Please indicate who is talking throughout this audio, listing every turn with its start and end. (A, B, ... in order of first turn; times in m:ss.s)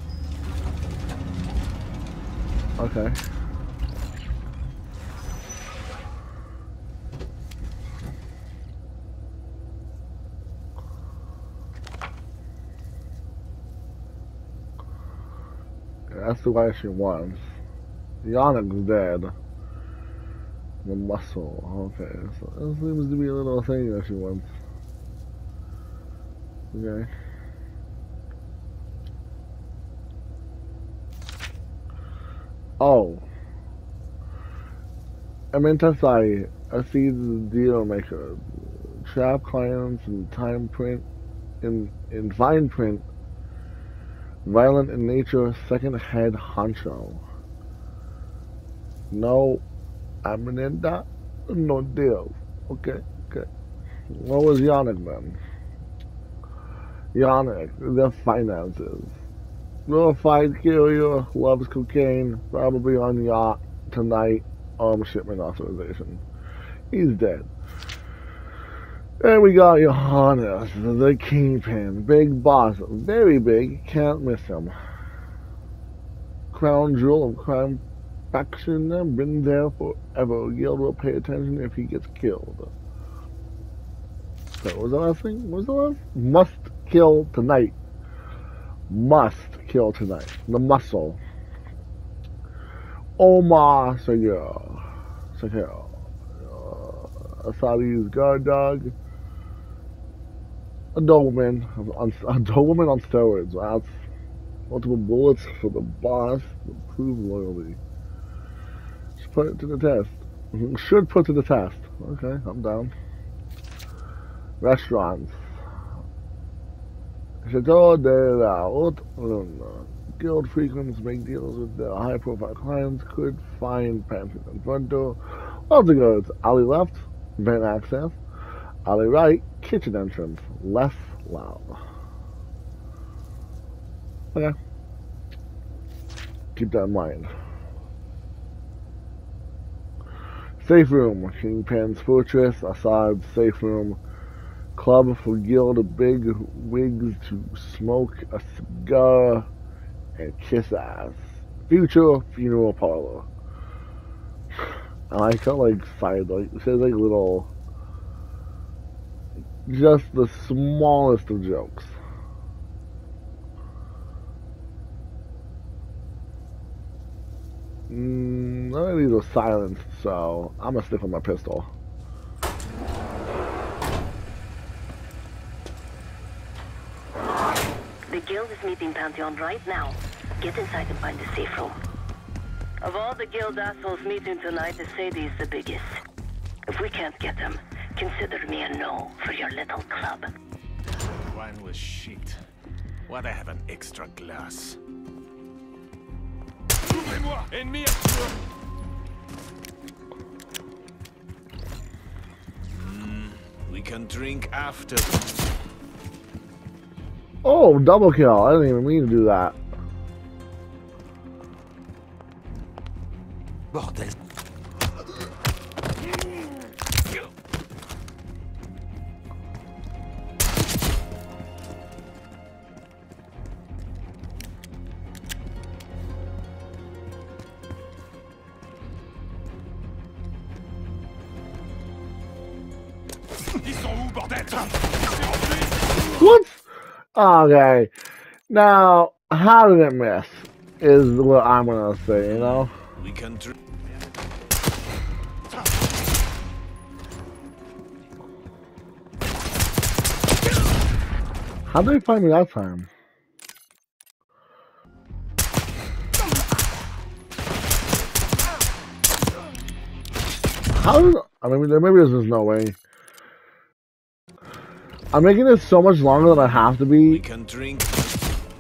0:02.8-0:03.2 A
0:16.1-0:17.4 A
0:18.2-0:19.3 A
0:20.8-0:24.5 A
0:26.7-0:27.1 A
0:32.8-0:33.3 A
0:35.5-0:41.1 A
0:41.6-0:43.1 A
0:44.4-0:47.2 A
0:49.1-0:49.6 A
0:50.2-0:53.5 A
0:54.1-0:55.4 A
0:57.1-0:59.2 A
0:59.9-1:06.2 A
1:06.9-1:07.5 A
1:09.2-1:14.8 A
1:16.5-1:22.7 A
1:24.6-1:27.8 A
1:28.9-1:31.2 A
1:33.2-1:38.9 A
1:41.0-1:43.9 A
1:44.7-1:47.8 A
1:49.2-1:52.9 A
1:54.6-1:55.4 A
1:57.4-2:08.2 A
2:08.8-2:11.8 A
2:16.6-2:17.3 A
2:20.6-2:24.0 A
2:24.8-2:29.5 A
2:30.2-2:33.3 A
2:35.1-2:37.5 A
2:39.7-2:41.9 A
2:47.9-2:51.7 A
2:58.1-3:01.8 B
3:02.8-3:06.0 B
3:06.7-3:10.3 B
3:11.0-3:12.4 C
3:13.1-3:14.8 C
3:16.8-3:18.3 D
3:22.7-3:25.4 C
3:27.4-3:29.6 A
3:33.7-3:34.1 C
3:53.6-3:55.9 D
3:56.2-3:56.6 A
3:57.2-3:57.9 A
3:58.5-4:02.7 A
4:02.2-4:03.5 C
4:11.7-4:12.9 A
4:20.7-4:22.8 A
4:25.1-4:27.2 A
4:27.0-4:28.2 C